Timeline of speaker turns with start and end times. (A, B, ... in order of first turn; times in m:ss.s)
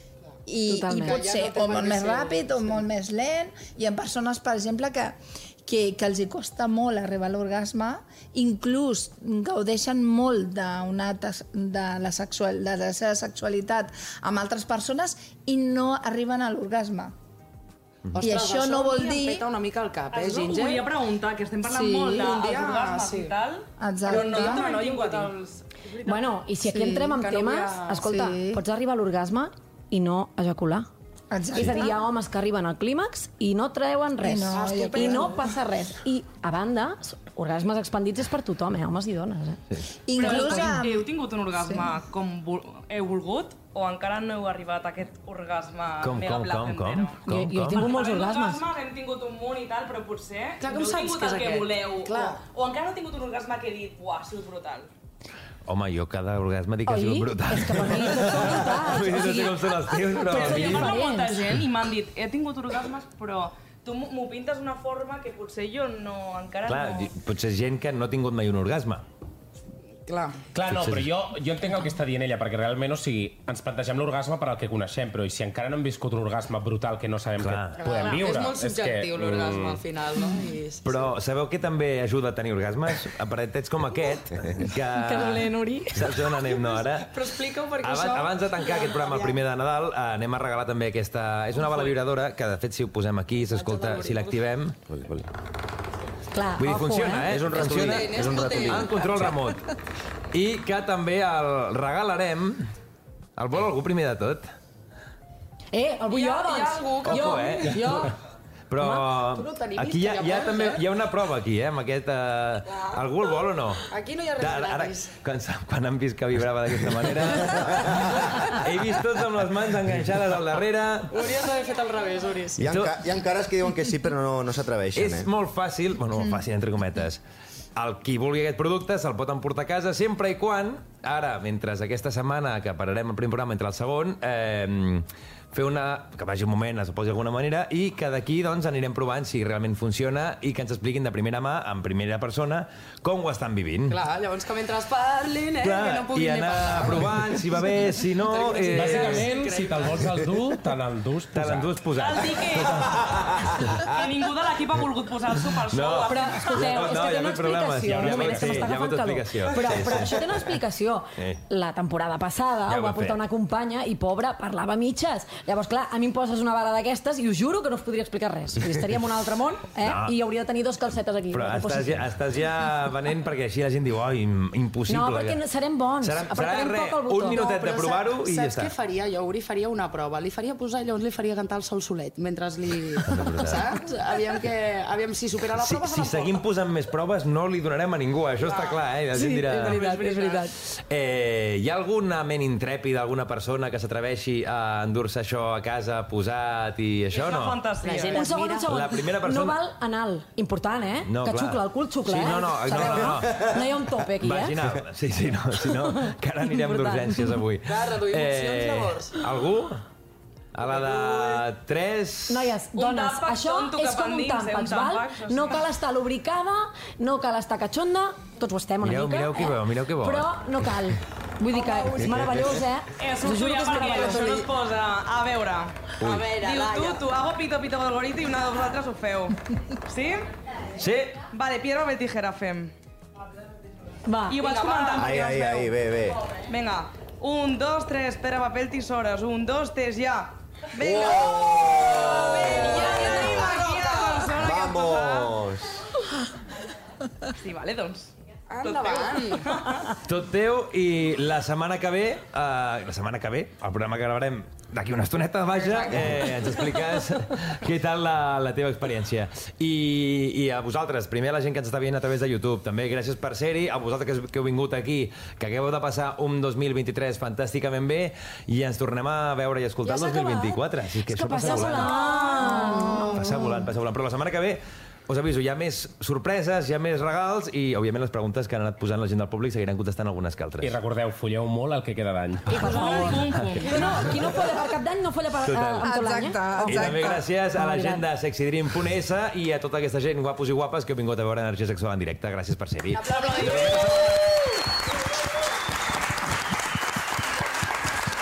0:00.5-0:17.1 A
0:00.7-0:01.2 B
0:00.9-0:02.9 C
0:18.2-0:20.9 C
0:18.2-0:19.4 A
0:20.1-0:25.7 D
0:21.6-0:22.3 A
0:22.1-0:23.3 C
0:23.8-0:24.6 A
0:24.0-0:25.4 C
0:26.0-0:30.9 B
0:26.7-0:27.2 A
0:27.1-0:28.1 C
0:28.0-0:28.6 A
0:31.3-0:32.0 A
0:31.5-0:39.6 B
0:34.2-0:35.5 A
0:34.5-0:35.5 C
0:40.1-0:41.9 A
0:40.2-0:47.2 D
0:40.2-0:40.8 B
0:46.0-0:47.9 E
0:47.3-0:48.6 B
0:47.8-0:54.9 D
0:50.6-0:52.4 C
0:55.7-1:01.0 E
0:56.9-1:01.4 B
1:00.3-1:07.1 D
1:06.7-1:09.0 E
1:10.1-1:10.4 C
1:10.5-1:19.8 F
1:10.7-1:11.1 E
1:17.4-1:17.8 E
1:17.8-1:21.1 C
1:20.8-1:34.8 E
1:25.0-1:26.2 B
1:26.7-1:29.4 C
1:33.6-1:34.4 C
1:34.9-1:35.3 G
1:36.3-1:37.3 B
1:36.6-1:39.6 E
1:37.3-1:39.3 G
1:37.6-1:39.2 C
1:40.3-1:42.7 E
1:43.4-1:44.5 E
1:45.7-1:48.1 B
1:46.1-1:48.1 C
1:47.0-1:48.1 E
1:48.7-2:01.2 E
1:48.8-1:49.1 B
1:49.4-1:50.8 C
1:52.7-1:53.0 C
1:53.9-1:55.1 C
2:01.1-2:02.6 C
2:02.6-2:05.3 G
2:02.6-2:03.0 E
2:05.0-2:07.2 E
2:07.8-2:24.0 E
2:23.9-2:27.6 C
2:25.6-2:29.3 E
2:28.2-2:30.0 C
2:28.7-2:31.7 F
2:31.3-2:33.9 E
2:32.0-2:37.0 D
2:35.7-2:40.4 E
2:36.1-2:52.1 B
2:37.9-2:38.8 F
2:42.7-2:43.2 E
2:49.8-2:50.2 E
2:51.3-2:55.4 E
2:54.9-2:57.4 B
2:56.0-2:58.7 E
2:57.3-3:06.4 C
3:03.0-3:03.9 E
3:05.5-3:17.7 E
3:08.4-3:10.5 C
3:09.1-3:10.4 B
3:17.1-3:18.2 D
3:17.8-3:18.9 C
3:18.1-3:24.6 B
3:18.7-3:19.6 E
3:21.0-3:23.5 E
3:24.2-3:29.8 E
3:25.7-3:27.4 B
3:27.7-3:29.2 C
3:30.5-3:32.5 E
3:30.7-3:31.4 C
3:32.3-3:44.4 B
3:32.8-3:35.7 D
3:38.8-3:40.3 E
3:41.6-3:42.1 C
3:42.2-3:42.5 E
3:43.0-3:50.3 D
3:46.0-3:46.3 G
3:46.0-3:47.0 C
3:50.8-3:51.3 E
3:51.3-3:52.7 D
3:54.1-3:54.5 B
3:54.3-3:55.6 D
3:54.4-3:55.7 C
3:55.0-3:56.2 G
3:56.5-4:05.4 D
4:00.8-4:03.6 G
4:00.8-4:04.3 C
4:04.3-4:05.8 G
4:07.3-4:08.1 D
4:08.5-4:09.6 C
4:08.6-4:09.9 D
4:10.0-4:32.1 E
4:15.5-4:16.7 C
4:29.8-4:33.2 B
4:31.7-4:33.0 D
4:32.5-4:33.4 A
4:33.1-4:40.8 E
4:40.6-4:43.1 F
4:42.5-4:44.2 D
4:42.6-4:48.0 B
4:43.3-4:44.3 E
4:45.4-4:45.9 E
4:45.8-4:47.3 A
4:46.6-4:54.3 E
4:52.9-4:54.2 C